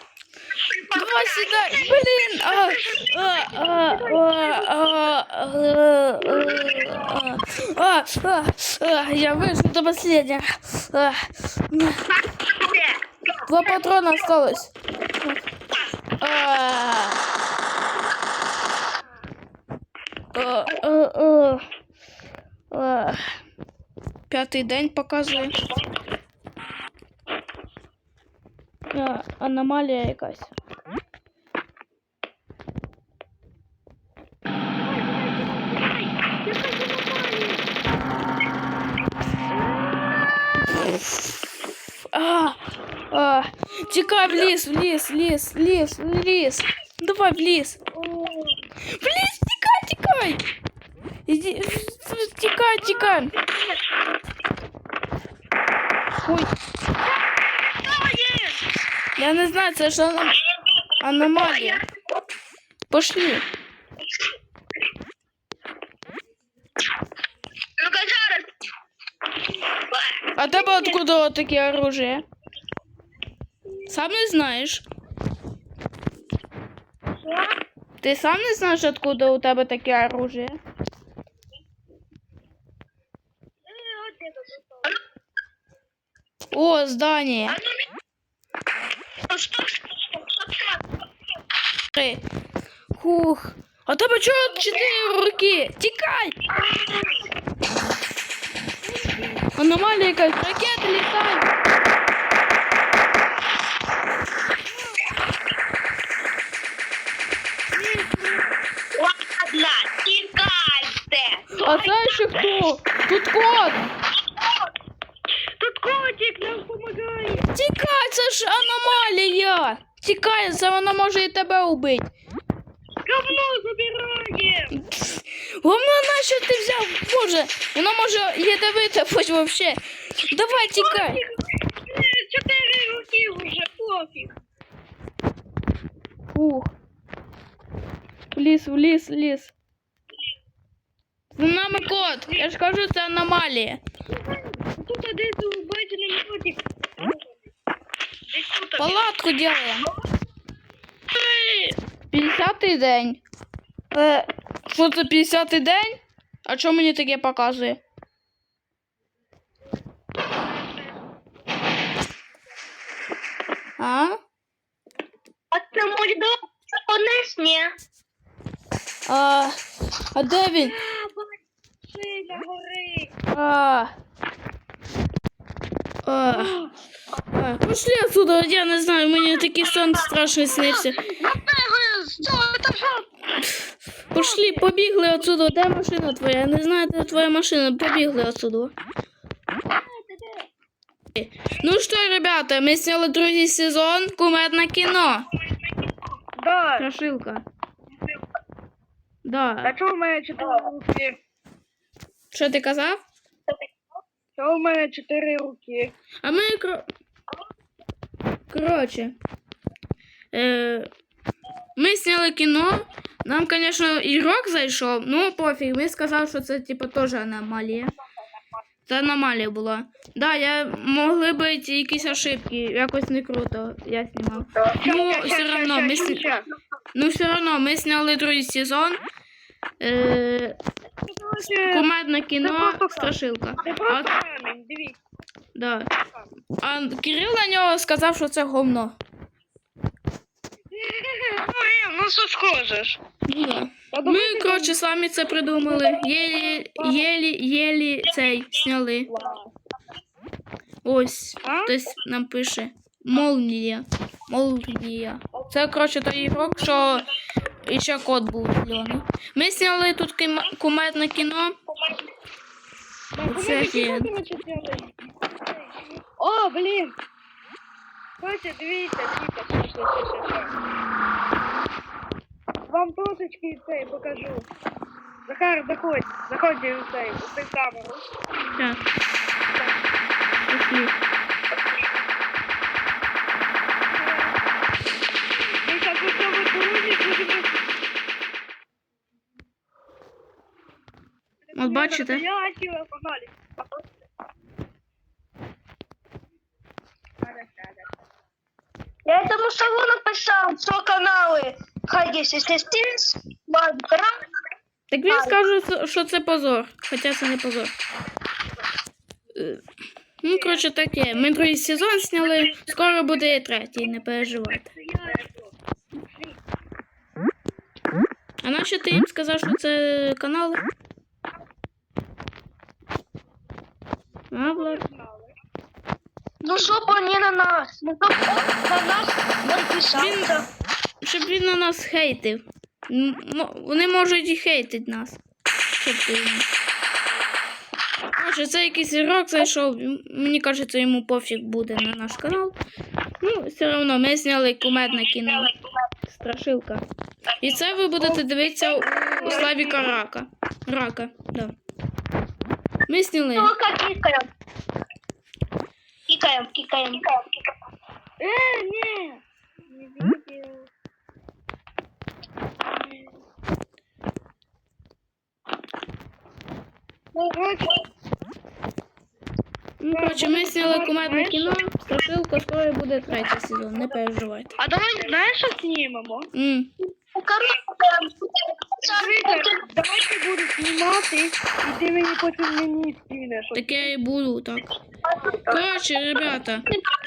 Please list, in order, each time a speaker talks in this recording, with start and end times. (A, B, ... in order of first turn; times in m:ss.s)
0:00.6-0:02.1 A
0:00.9-0:12.0 B
0:01.7-0:04.9 C
0:06.2-0:07.1 C
0:12.5-0:12.9 A
0:13.4-0:15.4 B
0:16.2-0:17.2 B
0:20.3-0:21.6 B
0:22.7-0:23.4 B
0:24.3-0:25.5 B
0:28.9-0:30.5 B
0:34.8-0:37.6 C
0:39.5-0:40.6 C
0:40.8-0:41.1 B
0:42.1-0:42.6 B
0:43.1-0:47.8 B
0:47.9-0:48.6 C
0:48.9-0:50.4 B
0:51.2-0:53.3 B
0:52.8-0:53.7 C
0:56.2-0:56.5 B
0:57.3-0:58.6 C
0:59.2-1:00.4 B
1:01.0-1:01.8 B
1:02.9-1:03.4 B
1:07.8-1:08.5 A
1:10.4-1:12.2 B
1:10.5-1:11.0 C
1:13.9-1:14.8 B
1:17.1-1:17.5 C
1:18.0-1:20.6 B
1:23.7-1:24.9 C
1:26.5-1:27.6 B
1:27.5-1:27.8 A
1:29.3-1:30.8 A
1:31.9-1:32.2 B
1:32.9-1:36.4 B
1:36.8-1:37.1 C
1:38.8-1:39.4 C
1:39.6-1:41.5 B
1:44.7-1:45.0 C
1:47.7-1:48.6 C
1:48.9-1:52.0 A
1:51.6-1:53.8 B
1:55.6-1:57.4 C
1:57.5-2:02.1 B
2:03.0-2:04.7 C
2:04.7-2:11.2 B
2:10.5-2:14.3 C
2:16.3-2:16.7 B
2:18.3-2:19.5 B
2:21.3-2:23.8 B
2:21.8-2:22.5 C
2:24.1-2:27.4 C
2:28.3-2:29.1 C
2:28.8-2:29.9 B
2:31.1-2:31.8 C
2:32.1-2:33.2 B
2:33.9-2:37.8 B
2:43.8-2:44.2 B
2:45.5-2:47.7 A
2:49.0-2:49.6 B
2:50.1-2:50.7 B
2:50.5-2:53.1 C
2:53.3-2:53.9 B
2:56.0-2:56.6 B
2:56.3-2:56.7 C
2:57.3-3:01.0 B
3:00.5-3:03.1 C
3:03.4-3:08.7 B
3:04.1-3:04.7 C
3:09.7-3:10.5 C
3:11.1-3:15.3 B
3:16.4-3:16.9 C
3:16.8-3:17.4 B
3:19.2-3:19.8 B
3:19.6-3:21.2 C
3:22.3-3:23.0 B
3:24.4-3:25.9 C
3:26.2-3:26.8 B
3:28.5-3:29.2 B
3:30.3-3:30.9 B
3:31.8-3:37.9 B
3:38.8-3:46.2 B
3:44.7-3:46.4 C
3:46.9-3:49.0 B
3:49.8-3:50.6 B
3:51.0-3:51.9 C
3:51.7-3:54.1 B
3:52.4-3:53.1 C
3:53.6-3:55.0 C
3:55.5-3:55.9 B
3:56.6-3:59.0 B
4:00.7-4:03.0 C
4:03.2-4:09.1 B
4:03.9-4:04.8 C
4:05.6-4:07.0 C
4:09.1-4:09.5 C
4:10.8-4:17.0 B
4:11.4-4:11.7 C
4:16.2-4:17.0 C
4:17.6-4:21.5 B
4:21.8-4:22.1 C
4:23.2-4:27.0 C
4:23.2-4:24.1 B
4:28.2-4:30.5 C
4:32.7-4:34.5 C
4:35.3-4:38.0 C
4:38.5-4:38.8 B
4:40.5-4:41.0 B
4:43.9-4:44.4 C
4:45.6-4:47.5 C
4:51.5-4:53.4 C
4:51.5-4:52.2 B
4:57.2-4:57.8 C
4:59.0-5:04.1 A
5:04.9-5:07.7 B
5:05.1-5:05.4 A
5:09.3-5:09.6 B
5:10.2-5:14.7 B
5:10.3-5:10.6 C
5:14.4-5:16.4 C
5:18.4-5:20.6 B
5:24.3-5:24.8 B
5:24.5-5:25.3 C
5:26.4-5:30.2 A
5:29.4-5:30.4 C
5:29.9-5:30.4 B
5:31.0-5:35.2 B
5:35.8-5:36.5 B
5:38.2-5:42.6 B
5:43.2-5:45.5 B
5:45.2-5:45.5 A
5:46.1-5:46.8 B
5:47.4-5:51.5 B
5:48.0-5:50.0 C
5:52.9-5:53.5 B
5:53.4-5:54.3 A
5:56.1-5:57.2 A
5:58.2-6:00.7 C
6:07.1-6:07.8 C
6:09.8-6:14.6 B
6:09.9-6:11.6 C
6:14.6-6:16.3 C
6:16.3-6:16.7 B
6:17.1-6:19.5 A
6:18.8-6:23.9 C
6:23.5-6:24.7 B
6:25.4-6:26.7 B